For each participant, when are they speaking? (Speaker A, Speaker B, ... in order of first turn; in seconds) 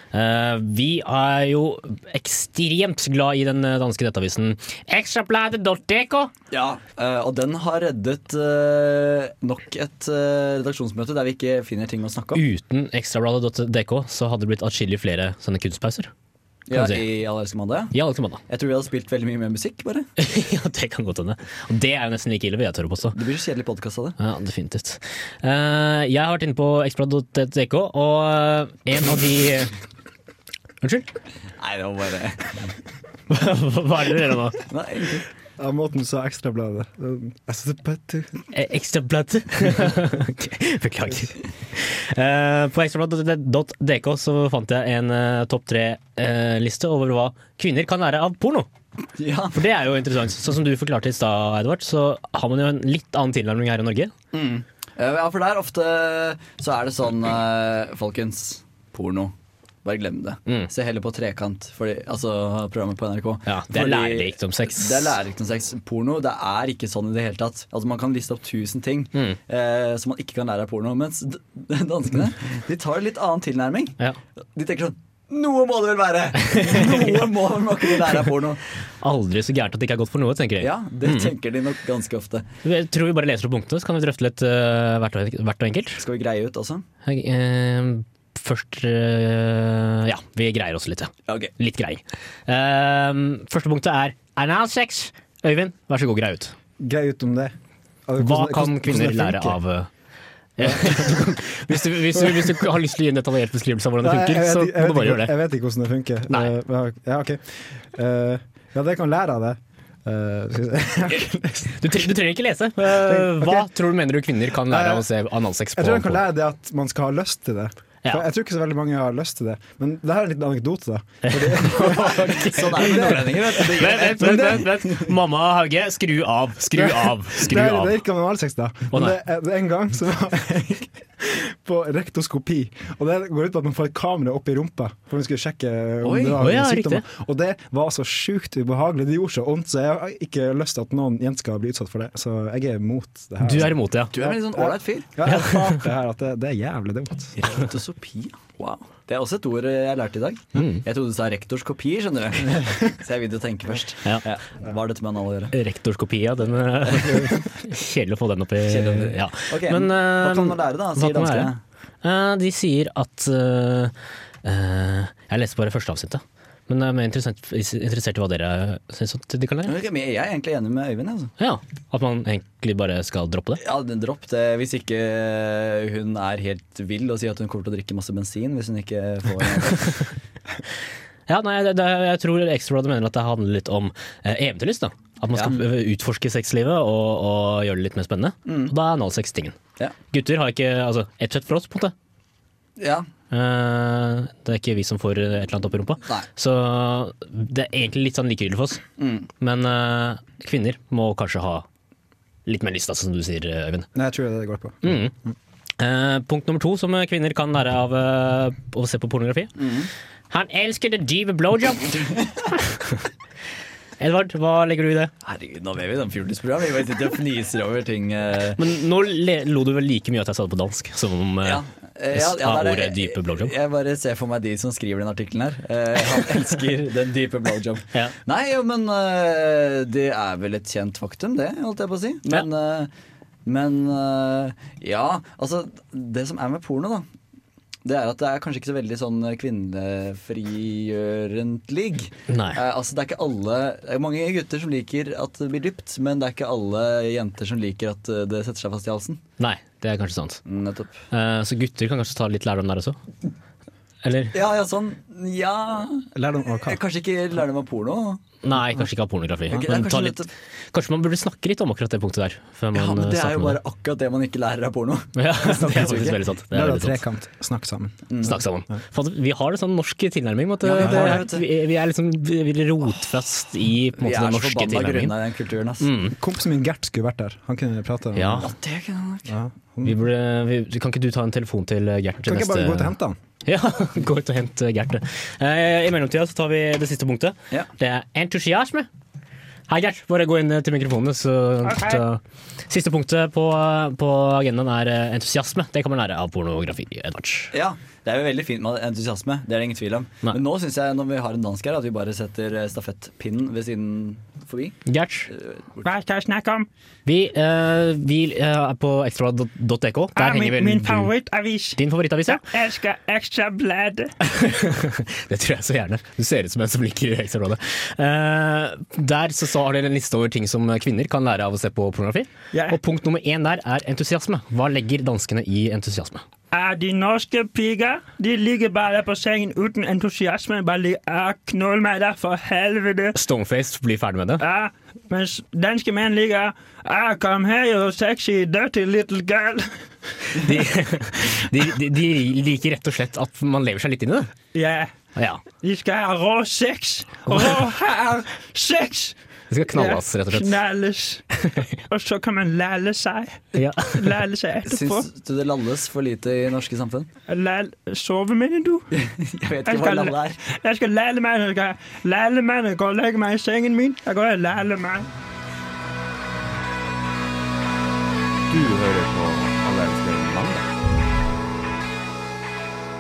Speaker A: 0.1-6.3, 12.3-16.1, 16.7-17.0, 17.9-18.4, 20.2-23.2, 24.2-29.7, 30.8-31.1, 33.3-34.6, 38.5-48.7, 49.5-54.1, 63.5-65.2, 76.5-77.2, 79.0-81.3, 82.6-86.0, 87.1-96.5, 98.2-99.9, 100.6-105.3, 111.8-116.2, 121.2-128.0, 136.4-137.1, 143.4-144.1, 145.3-145.8, 150.6-150.8, 155.5-161.5, 162.0-163.9, 164.4-169.8, 171.4-173.6, 181.3-189.6, 190.1-191.9, 193.3-198.8, 199.4-201.7, 202.5-203.9, 204.8-205.1, 205.8-209.6, 210.3-212.0, 212.7-212.9, 214.0-215.1, 218.6-223.5, 242.3-242.6, 249.4-250.4, 251.1-253.0, 254.0-254.3, 258.4-263.6, 265.2-267.0, 268.2-275.1, 275.8-276.1, 278.1-278.5, 279.8-282.9, 283.4-288.9, 289.7-297.5, 304.9-305.3, 307.1-311.1, 311.8-312.4, 314.2-326.2, 333.1-334.4, 340.4-344.3, 345.2-345.4, 347.3-347.6, 349.5-350.5, 353.6-354.1
Speaker B: 6.5-12.4, 16.7-17.9, 18.5-20.1, 23.1-24.2, 31.6-32.6, 34.7-35.2, 49.2-49.6, 54.3-59.3, 59.9-74.0, 74.5-78.6, 80.6-82.5, 86.0-86.8, 91.3-91.5, 121.8-125.0, 136.0-136.4, 144.1-145.2, 147.4-155.5, 156.9-157.3, 158.7-161.6, 169.7-171.3, 173.6-180.1, 188.4-188.7, 192.8-193.1, 199.0-199.3, 209.6-209.9, 215.2-218.6, 221.4-232.9, 233.5-237.1, 237.8-249.2, 250.5-251.0, 254.3-256.1, 256.6-258.2, 259.5-260.3, 262.7-266.2, 268.1-268.4, 270.6-271.5, 274.0-275.9, 278.4-279.3, 297.5-305.8, 354.6-357.1, 358.9-360.4
Speaker C: 35.6-38.4, 96.8-97.5, 98.1-99.6, 100.6-101.2, 102.2-102.5, 104.0-112.1, 112.9-113.7, 114.6-115.1, 115.8-123.5, 124.1-124.7, 126.7-147.4, 203.9-205.3, 256.1-256.8, 266.5-268.1, 270.8-271.2, 276.2-278.5, 279.3-279.9, 282.2-283.2
Speaker D: 291.6-292.0, 305.8-306.7, 310.2-314.1, 322.5-322.8, 326.5-333.2, 334.4-339.7, 344.5-344.9, 345.6-349.2, 349.7-351.2, 351.9-355.1, 357.3-358.9, 359.7-365.1
Speaker E: 368.5-370.7